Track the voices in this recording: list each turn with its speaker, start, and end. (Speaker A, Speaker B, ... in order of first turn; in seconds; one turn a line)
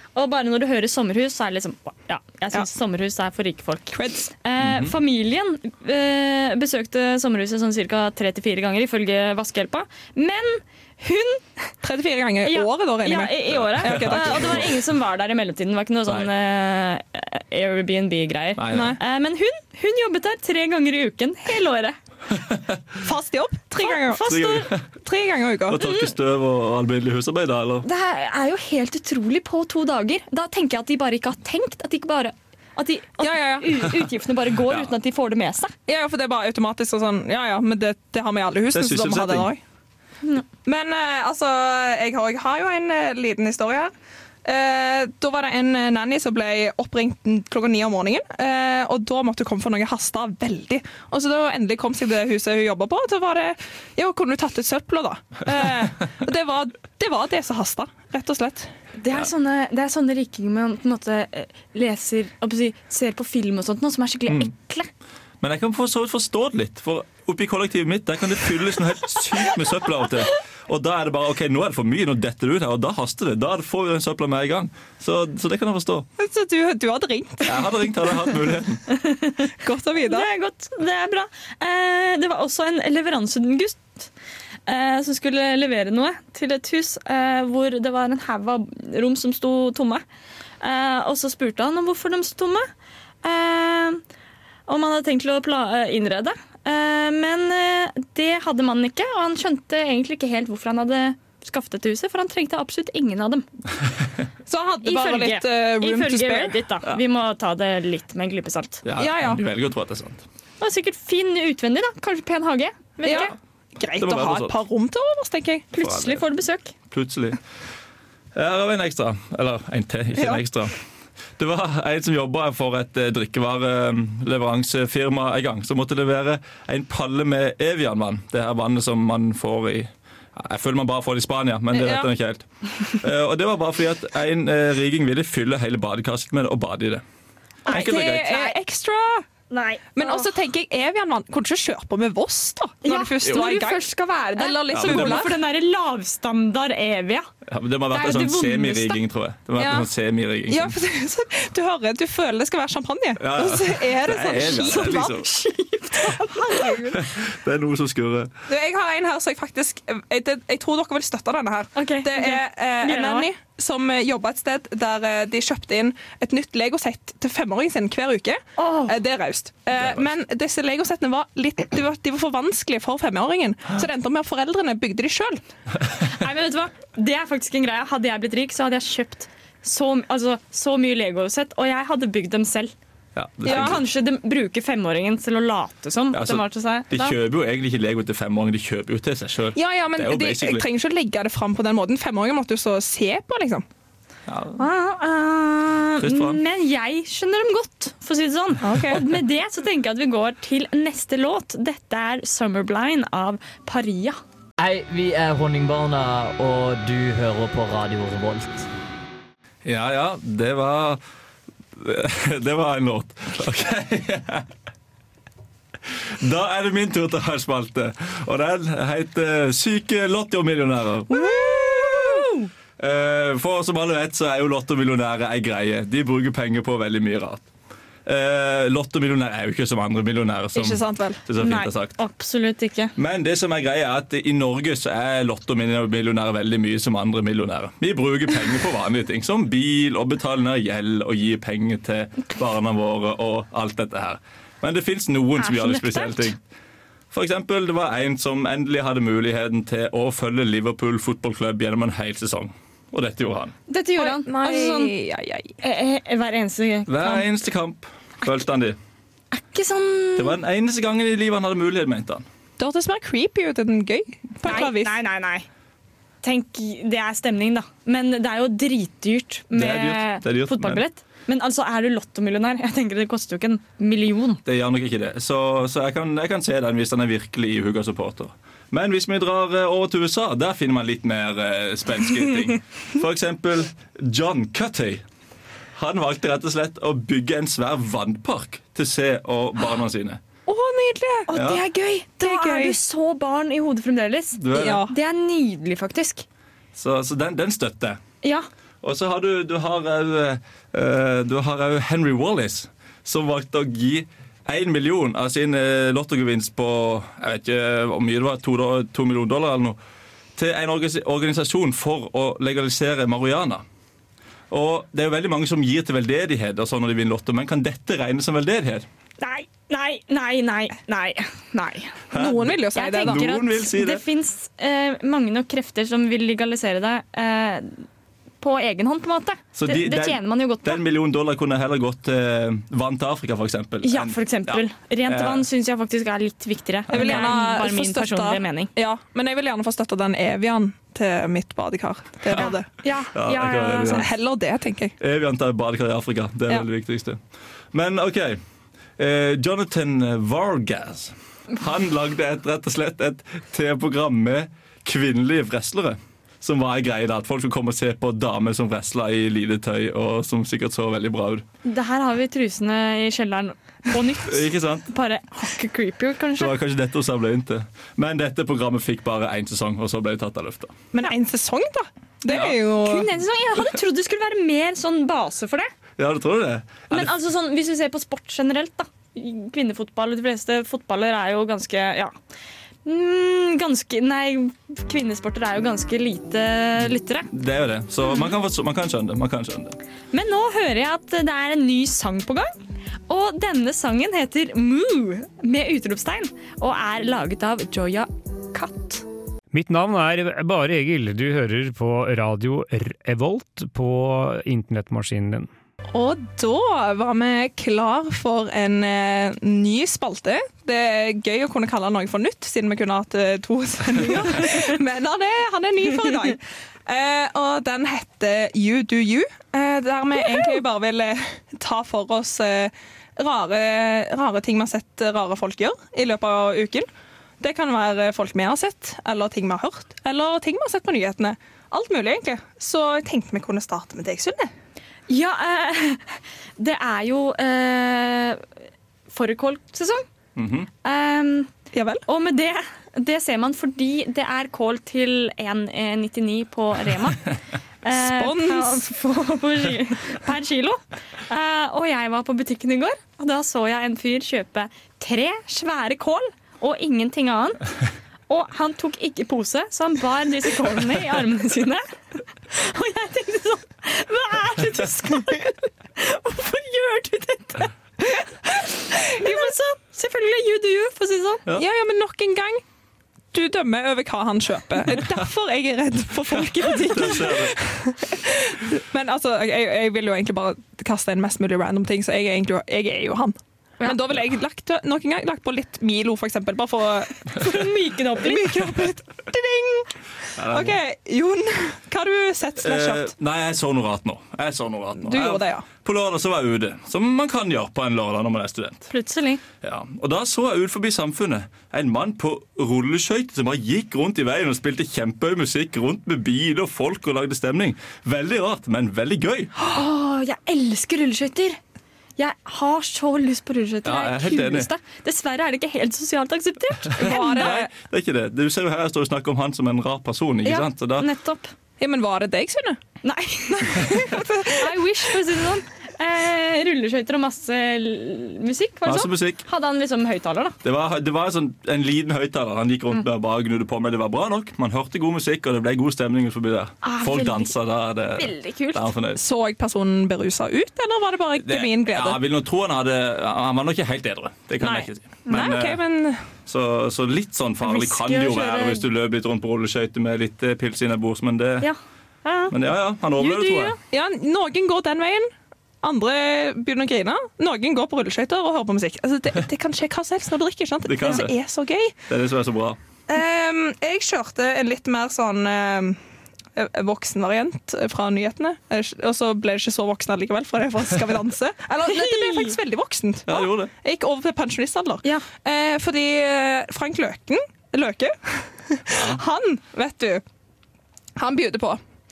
Speaker A: 0.1-11.7
Speaker B: 3.9-4.3
Speaker C: 4.6-4.9
Speaker B: 11.8-14.7
Speaker A: 12.5-22.0
Speaker C: 13.6-14.8
Speaker C: 18.6-19.0
Speaker B: 18.7-19.0
Speaker C: 22.4-22.8
Speaker B: 23.0-25.8
Speaker A: 23.8-24.7
Speaker C: 24.3-24.8
Speaker C: 25.7-27.9
Speaker A: 25.8-26.1
Speaker A: 27.8-35.7
Speaker B: 33.2-33.7
Speaker B: 35.9-39.6
Speaker C: 38.7-39.5
Speaker B: 40.6-43.9
Speaker B: 44.5-58.7
Speaker A: 59.0-64.9
Speaker C: 65.4-76.1
Speaker B: 76.2-77.7
Speaker C: 77.5-78.8
Speaker A: 78.9-79.5
Speaker B: 79.6-80.3
Speaker A: 80.0-84.1
Speaker A: 84.7-90.0
Speaker A: 90.6-92.7
Speaker A: 93.2-94.0
Speaker A: 94.7-103.5
Speaker B: 104.5-106.6
Speaker A: 104.8-108.8
Speaker C: 108.8-110.2
Speaker B: 109.0-109.4
Speaker A: 110.6-113.3
Speaker B: 113.0-115.7
Speaker C: 114.0-114.5
Speaker A: 115.7-116.7
Speaker C: 115.8-116.2
Speaker C: 116.9-117.4
Speaker C: 118.3-120.8
Speaker C: 121.4-132.5
Speaker B: 131.7-132.1
Speaker C: 133.0-137.0
Speaker C: 137.7-138.4
Speaker A: 137.7-138.5
Speaker B: 137.7-139.2
Speaker A: 139.5-140.3
Speaker B: 140.0-145.4
Speaker A: 142.8-147.3
Speaker C: 144.7-145.3
Speaker C: 147.5-150.8
Speaker A: 147.9-149.0
Speaker B: 149.6-149.9
Speaker B: 150.5-155.2
Speaker C: 153.2-155.3
Speaker A: 154.5-156.8
Speaker B: 156.0-157.1
Speaker C: 156.9-158.3
Speaker B: 158.5-175.4
Speaker A: 161.8-163.3
Speaker A: 168.6-169.0
Speaker C: 169.8-170.1
Speaker A: 176.0-182.7
Speaker C: 183.2-183.8
Speaker A: 183.4-187.2
Speaker B: 183.5-183.8
Speaker C: 186.1-190.7
Speaker B: 189.6-193.7
Speaker C: 194.3-194.6
Speaker A: 194.6-204.2
Speaker C: 196.0-196.4
Speaker B: 198.6-199.0
Speaker D: 204.6-208.7
Speaker C: 209.7-211.0
Speaker C: 211.8-214.5
Speaker C: 215.9-222.2
Speaker A: 221.1-222.3
Speaker B: 221.2-222.2
Speaker C: 222.8-227.5
Speaker C: 228.1-232.0
Speaker B: 230.6-231.2
Speaker A: 231.4-232.9
Speaker C: 233.0-246.4
Speaker A: 245.4-246.3
Speaker C: 247.1-253.5
Speaker A: 253.7-254.9
Speaker B: 254.0-255.6
Speaker A: 255.6-257.3
Speaker C: 256.9-258.8
Speaker A: 259.3-260.4
Speaker C: 260.2-262.3
Speaker B: 262.6-264.9
Speaker A: 264.4-265.5
Speaker A: 266.2-274.4
Speaker C: 269.5-270.8
Speaker C: 274.4-285.0
Speaker C: 285.7-290.2
Speaker B: 290.5-291.3
Speaker A: 291.3-296.2
Speaker C: 291.3-291.6
Speaker B: 292.2-292.8
Speaker C: 294.4-294.8
Speaker B: 294.5-294.9
Speaker C: 296.8-298.0
Speaker C: 298.8-309.8
Speaker C: 310.4-313.6
Speaker C: 314.5-318.9
Speaker A: 319.2-322.0
Speaker C: 322.1-324.0
Speaker B: 322.1-323.3
Speaker A: 322.8-327.9
Speaker A: 328.4-330.8
Speaker C: 329.5-335.4
Speaker A: 333.8-338.7
Speaker C: 336.9-337.3
Speaker B: 336.9-342.7
Speaker A: 342.4-344.0
Speaker C: 343.1-344.1
Speaker B: 343.9-344.9
Speaker C: 345.0-347.2
Speaker C: 347.7-348.4
Speaker C: 349.0-361.4
Speaker A: 361.6-366.5
Speaker C: 364.2-364.9
Speaker C: 366.4-370.8
Speaker B: 370.9-373.1
Speaker C: 372.3-372.6
Speaker A: 372.4-375.7
Speaker C: 376.0-377.1
Speaker A: 376.9-382.1
Speaker A: 382.9-387.3
Speaker C: 387.3-389.8
Speaker A: 390.1-392.5
Speaker A: 393.1-399.0
Speaker E: 399.5-405.5
Speaker B: 405.9-426.9
Speaker B: 427.4-434.5
Speaker A: 435.1-438.5
Speaker A: 439.1-440.0
Speaker C: 440.4-440.7
Speaker A: 440.8-441.5
Speaker B: 441.7-442.1
Speaker A: 442.1-457.7
Speaker B: 447.9-449.2
Speaker A: 458.3-471.4
Speaker B: 469.2-469.5
Speaker B: 471.6-472.6
Speaker B: 473.3-487.6
Speaker C: 476.4-477.6
Speaker A: 476.9-477.2
Speaker A: 487.4-488.5
Speaker B: 488.2-493.1
Speaker C: 490.4-490.8
Speaker C: 492.6-498.9
Speaker B: 495.0-495.7
Speaker A: 498.9-499.4
Speaker C: 499.6-509.5
Speaker A: 509.7-511.6
Speaker A: 512.2-517.6
Speaker C: 513.9-514.7
Speaker C: 517.0-521.1
Speaker B: 517.0-517.7
Speaker A: 520.5-521.5
Speaker B: 521.8-522.8
Speaker A: 523.0-530.6
Speaker B: 523.6-525.2
Speaker C: 528.9-529.4
Speaker C: 530.6-539.2
Speaker A: 536.8-537.5
Speaker A: 538.2-538.9
Speaker B: 539.2-542.2
Speaker C: 541.4-545.8
Speaker B: 544.6-546.2
Speaker C: 546.5-551.7
Speaker A: 547.6-548.9
Speaker A: 551.6-552.5
Speaker C: 552.5-553.8
Speaker A: 553.2-553.8
Speaker B: 553.9-555.3
Speaker B: 555.8-561.9
Speaker C: 560.9-561.4
Speaker C: 562.1-562.8
Speaker B: 563.1-566.0
Speaker B: 566.5-580.2
Speaker A: 571.9-572.5
Speaker C: 573.3-573.7
Speaker C: 578.9-579.2
Speaker B: 581.2-581.8